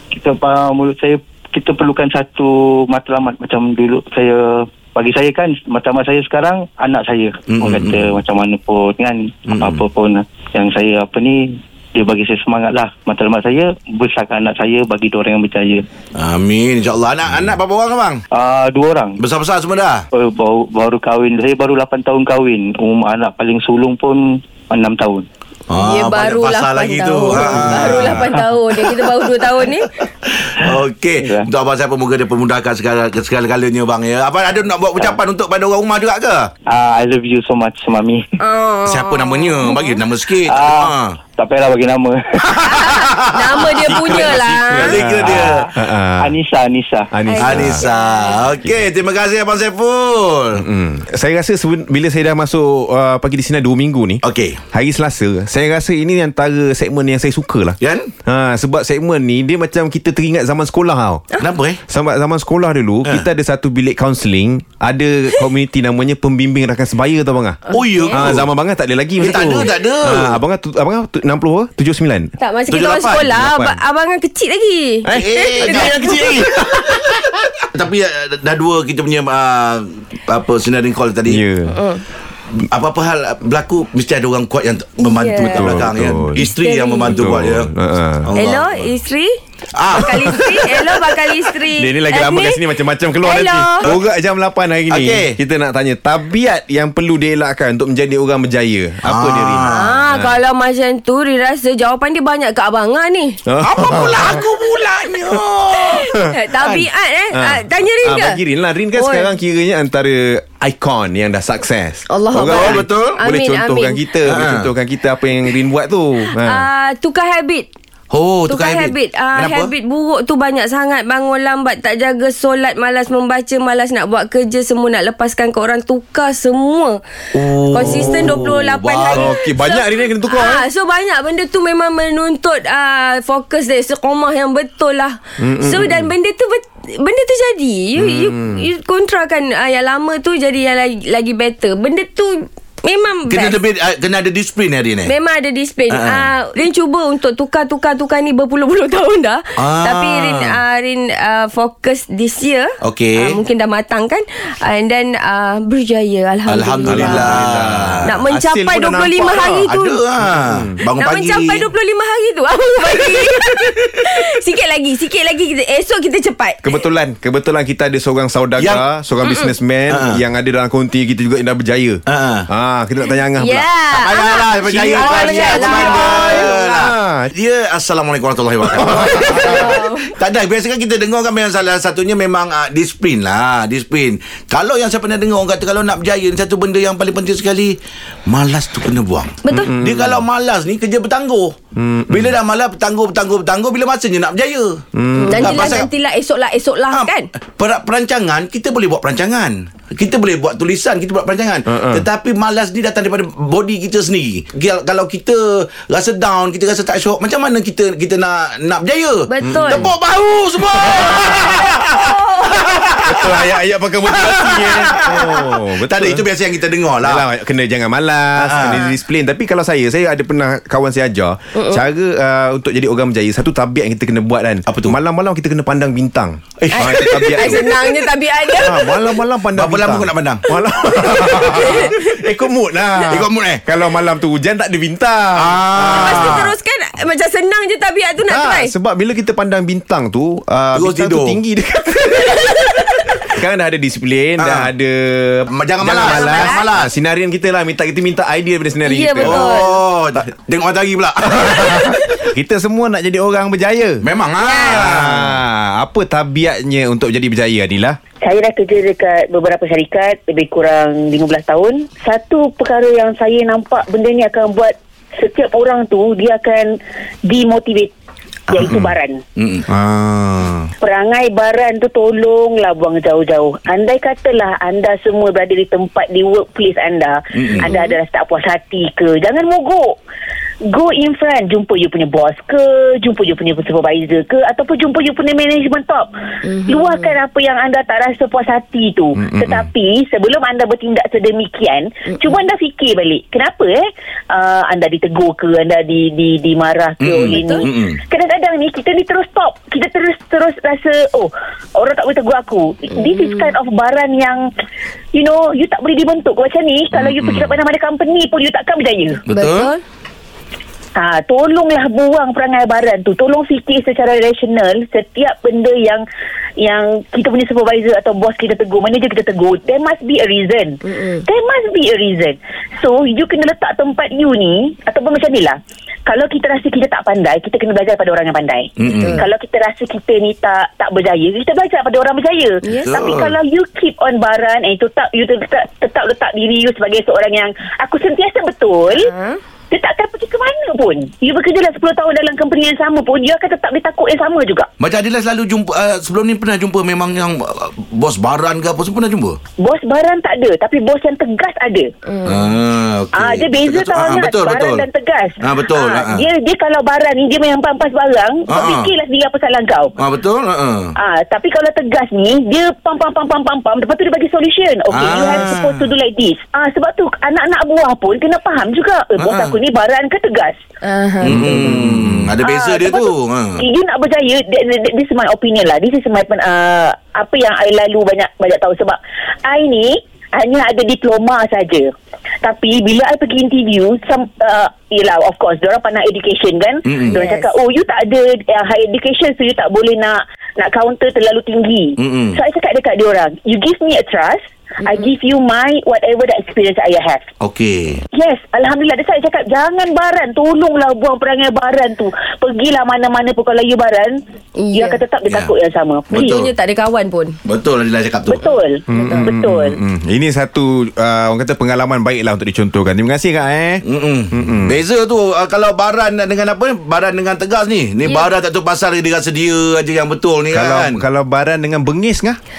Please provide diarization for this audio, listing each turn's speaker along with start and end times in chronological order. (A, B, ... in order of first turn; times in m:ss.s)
0:00.2-0:04.4 A
0:05.0-0:15.8 A
0:07.5-0:08.2 B
0:09.5-0:09.8 B
0:16.2-0:18.2 B
0:18.3-0:19.2 A
0:19.2-0:20.0 B
0:20.1-0:25.3 A
0:25.7-0:29.1 B
0:25.8-0:29.9 C
0:27.4-0:28.3 D
0:30.2-0:36.5 B
0:31.2-0:31.5 A
0:36.7-0:38.2 A
0:38.4-0:40.0 C
0:38.8-0:41.2 B
0:40.3-0:42.6 A
0:42.5-0:44.2 B
0:42.6-0:45.0 C
0:43.8-0:46.4 D
0:44.8-0:45.7 B
0:45.2-0:47.1 A
0:47.1-0:47.8 D
0:47.3-0:48.4 C
0:47.4-0:50.6 B
0:48.6-0:48.9 D
0:50.6-1:01.3 D
0:54.2-0:54.6 B
0:57.8-0:58.1 B
1:01.4-1:01.8 B
1:01.9-1:12.3 D
1:07.7-1:08.1 C
1:07.7-1:08.5 B
1:09.2-1:10.4 B
1:12.4-1:16.3 C
1:12.7-1:13.3 B
1:13.3-1:13.8 D
1:15.0-1:17.4 D
1:15.1-1:16.5 B
1:17.7-1:21.4 B
1:21.3-1:21.8 D
1:21.7-1:22.0 C
1:22.5-1:27.7 B
1:25.0-1:25.8 C
1:25.4-1:26.5 D
1:26.4-1:27.2 C
1:27.0-1:28.3 D
1:28.3-1:28.9 B
1:28.3-1:29.4 C
1:29.7-1:30.4 B
1:29.9-1:32.6 C
1:30.1-1:30.4 D
1:31.8-1:40.4 D
1:33.2-1:33.9 C
1:34.9-1:35.4 B
1:39.0-1:40.0 B
1:39.7-1:43.4 C
1:43.5-1:44.4 D
1:43.6-1:46.0 B
1:45.8-1:48.4 C
1:47.3-1:56.7 D
1:49.0-1:49.3 C
1:52.1-1:54.0 C
1:52.4-1:53.2 B
1:54.2-1:54.7 B
1:56.3-1:57.7 C
1:58.1-1:59.7 B
1:58.5-2:07.0 C
2:07.3-2:09.3 B
2:07.7-2:23.6 C
2:07.8-2:08.5 D
2:09.1-2:10.6 D
2:15.4-2:16.1 D
2:18.0-2:18.7 D
2:23.3-2:25.1 B
2:25.0-2:37.3 C
2:25.9-2:26.3 B
2:29.6-2:30.6 B
2:32.8-2:33.4 B
2:36.5-2:38.0 B
2:36.9-2:39.7 D
2:38.0-2:40.0 C
2:39.7-2:41.7 B
2:40.2-2:40.7 D
2:41.0-2:46.6 C
2:46.6-2:53.7 D
2:48.6-2:48.8 B
2:49.2-2:49.5 C
2:49.9-2:50.2 B
2:52.1-2:52.5 B
2:53.4-2:56.6 C
2:53.9-3:11.6 B
2:54.7-2:57.3 D
2:58.7-2:59.7 D
2:58.9-3:00.1 C
3:09.4-3:09.7 C
3:09.5-3:10.2 D
3:11.8-3:12.3 D
3:12.1-3:14.8 B
3:14.9-3:15.9 D
3:15.2-3:17.3 C
3:15.4-3:15.9 B
3:16.9-3:33.5 B
3:21.7-3:22.0 D
3:29.3-3:29.9 C
3:29.4-3:29.9 D
3:30.8-3:31.4 D
3:31.0-3:32.9 C
3:33.0-3:36.2 D
3:34.1-3:37.2 B
3:37.0-3:47.7 D
3:38.4-3:38.9 B
3:41.6-3:41.8 C
3:44.7-3:45.0 B
3:46.6-3:47.6 B
3:46.7-3:48.9 C
3:48.6-3:56.5 D
3:49.6-3:50.5 B
3:51.2-3:51.9 C
3:53.1-3:53.6 B
3:55.4-3:56.5 B
3:56.0-3:58.7 C
3:58.3-4:09.6 D
4:00.7-4:01.4 B
4:04.4-4:04.7 B
4:05.5-4:06.9 B
4:06.1-4:06.6 C
4:08.8-4:09.8 C
4:09.2-4:11.9 B
4:11.4-4:14.0 D
4:14.0-4:15.4 B
4:14.4-4:14.8 C
4:14.6-4:18.0 D
4:18.2-4:26.7 E
4:27.3-4:27.9 E
4:28.5-4:29.2 E
4:28.7-4:29.0 D
4:29.4-4:29.7 B
4:29.7-4:30.7 D
4:30.8-4:40.0 E
4:37.4-4:37.7 B
4:37.6-4:37.9 C
4:40.7-4:46.1 E
4:46.6-5:04.4 E
4:49.2-4:49.7 D
4:57.0-4:58.0 B
4:57.3-4:57.6 C
5:05.1-5:09.2 E
5:06.9-5:07.6 B
5:09.3-5:09.7 B
5:09.3-5:09.8 C
5:11.0-5:16.0 E
5:16.6-5:39.1 E
5:20.9-5:21.1 C
5:28.8-5:29.2 B
5:28.9-5:29.2 C
5:32.6-5:32.9 C
5:32.8-5:33.4 B
5:39.0-5:39.4 C
5:39.7-5:44.7 E
5:44.8-5:49.4 B
5:49.6-5:51.9 E
5:52.1-5:52.4 C
5:52.2-5:54.9 B
5:53.2-6:00.0 E
5:55.4-5:56.3 B
5:58.5-5:58.9 B
6:00.0-6:00.9 B
6:01.0-6:10.6 E
6:04.9-6:05.9 B
6:09.2-6:09.6 B
6:10.8-6:11.7 C
6:11.2-6:13.6 B
6:11.3-6:12.3 D
6:12.4-6:21.9 E
6:22.4-6:37.3 E
6:26.9-6:27.2 B
6:27.1-6:27.5 C
6:32.0-6:32.4 B
6:37.4-6:38.0 B
6:38.2-6:44.2 E
6:44.6-6:45.0 C
6:44.7-6:46.4 E
6:45.3-6:45.5 B
6:46.1-6:46.5 B
6:46.1-6:47.4 C
6:47.5-6:48.5 B
6:48.3-6:49.8 E
6:48.9-6:54.8 D
6:48.9-6:49.3 C
6:53.8-7:01.0 B
7:00.5-7:02.4 D